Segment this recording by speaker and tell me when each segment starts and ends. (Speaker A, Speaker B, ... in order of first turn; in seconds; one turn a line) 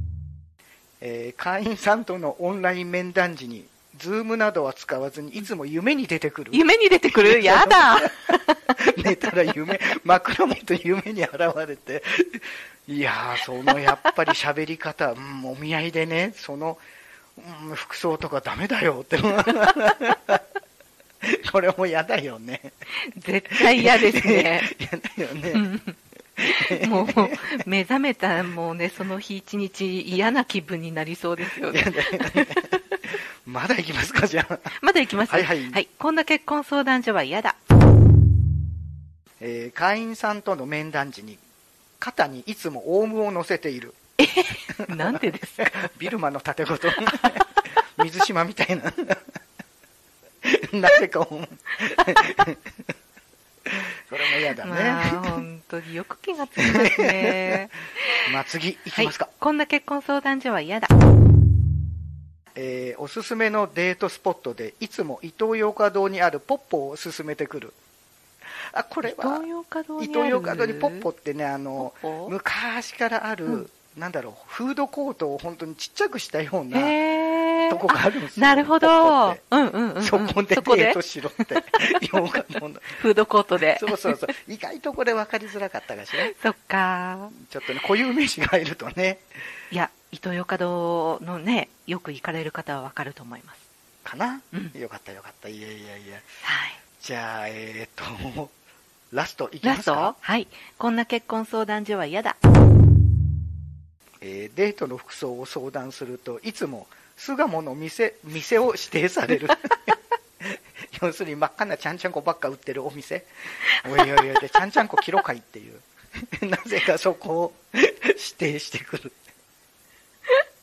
Speaker A: 1.0-16.8
Speaker B: 6.5-8.8
Speaker A: 17.4-20.4
Speaker A: 21.2-22.7
Speaker B: 22.9-24.7
Speaker A: 23.5-25.7
Speaker B: 25.5-25.9
Speaker A: 26.4-27.6
Speaker B: 26.5-32.8
Speaker A: 31.6-35.8
Speaker B: 34.8-37.6
Speaker A: 39.4-41.4
Speaker A: 42.0-44.0
Speaker B: 44.2-45.9
Speaker A: 44.8-49.4
Speaker B: 47.0-47.6
Speaker A: 50.4-52.8
Speaker A: 53.7-55.4
Speaker B: 54.6-58.3
Speaker A: 56.6-57.6
Speaker A: 58.2-59.3
Speaker B: 58.9-60.9
Speaker A: 62.5-67.8
Speaker A: 68.7-69.4
Speaker B: 69.0-71.0
Speaker A: 70.0-77.0
Speaker B: 71.8-72.3
Speaker B: 76.7-84.2
Speaker A: 77.7-79.4
Speaker A: 80.0-83.0
Speaker A: 83.6-86.3
Speaker B: 86.2-87.3
Speaker A: 87.3-89.3
Speaker B: 89.7-93.6
Speaker A: 94.0-96.3
Speaker B: 96.4-96.8
Speaker A: 97.0-98.5
Speaker A: 99.1-100.2
Speaker B: 99.6-102.4
Speaker A: 104.2-119.2
Speaker B: 113.7-114.2